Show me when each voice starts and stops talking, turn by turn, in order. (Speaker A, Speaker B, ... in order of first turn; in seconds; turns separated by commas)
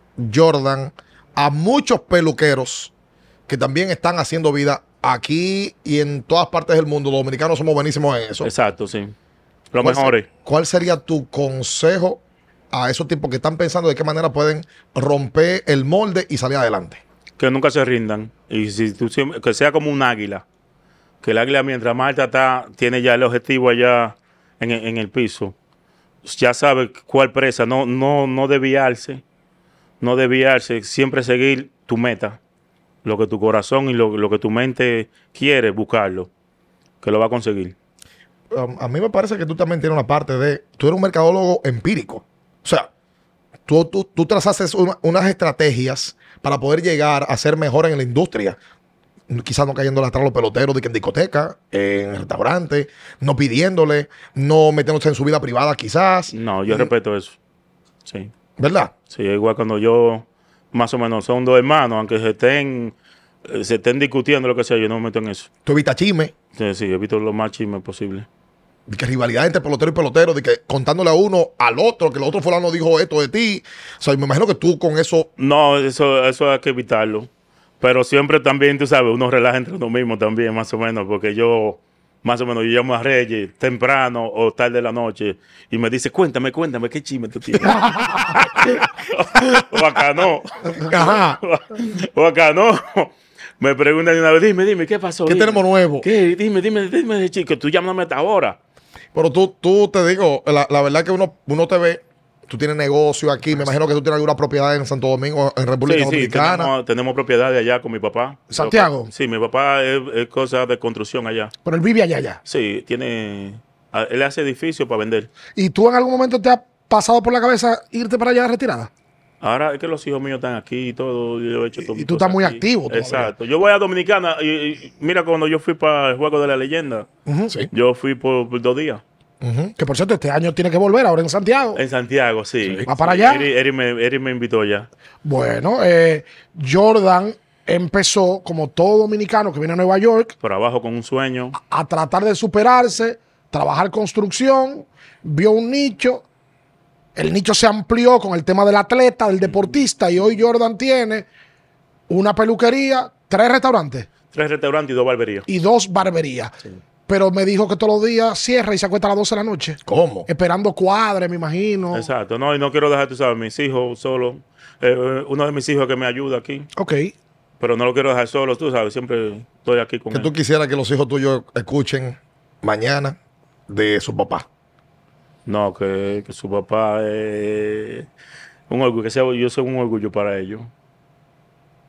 Speaker A: 0.2-2.9, Speaker A: 3.5-8.5, Speaker B: 8.4-9.1, Speaker B: 9.7-10.3, Speaker A: 9.8-17.0, Speaker B: 17.4-20.4, Speaker B: 21.2-25.5, Speaker B: 26.2-29.2, Speaker B: 30.0-32.4, Speaker B: 33.0-36.3, Speaker B: 37.0-37.7, Speaker A: 38.5-42.9, Speaker A: 43.7-48.6, Speaker A: 49.3-56.9, Speaker B: 56.3-57.4, Speaker B: 58.0-58.3, Speaker A: 58.6-58.9, Speaker B: 59.1-65.5, Speaker A: 65.7-66.3, Speaker B: 66.5-68.3, Speaker A: 68.9-75.3, Speaker B: 75.4-77.3, Speaker B: 77.8-98.6, Speaker C: 87.7-88.3, Speaker A: 90.8-91.4, Speaker A: 95.2-96.1, Speaker A: 99.1-106.7, Speaker B: 105.8-111.5, Speaker C: 108.5-109.1, Speaker C: 111.6-112.4, Speaker B: 112.4-115.3, Speaker C: 115.5-118.9, Speaker B: 119.4-127.1, Speaker C: 121.8-123.3, Speaker C: 127.2-127.6, Speaker B: 127.7-129.0, Speaker A: 129.4-129.7, Speaker C: 129.8-131.8, Speaker B: 131.7-134.9, Speaker C: 132.9-133.4, Speaker C: 135.2-140.3, Speaker B: 140.4-141.6, Speaker C: 141.6-146.2, Speaker C: 147.1-151.3, Speaker B: 149.4-149.7, Speaker C: 152.1-154.1, Speaker B: 154.3-155.5, Speaker C: 155.5-156.5, Speaker C: 157.1-162.1, Speaker A: 159.8-160.3, Speaker B: 161.9-166.7, Speaker C: 166.8-167.1, Speaker B: 167.6-170.3, Speaker A: 170.1-173.2, Speaker A: 173.7-174.5, Speaker B: 175.4-178.1, Speaker B: 178.7-180.7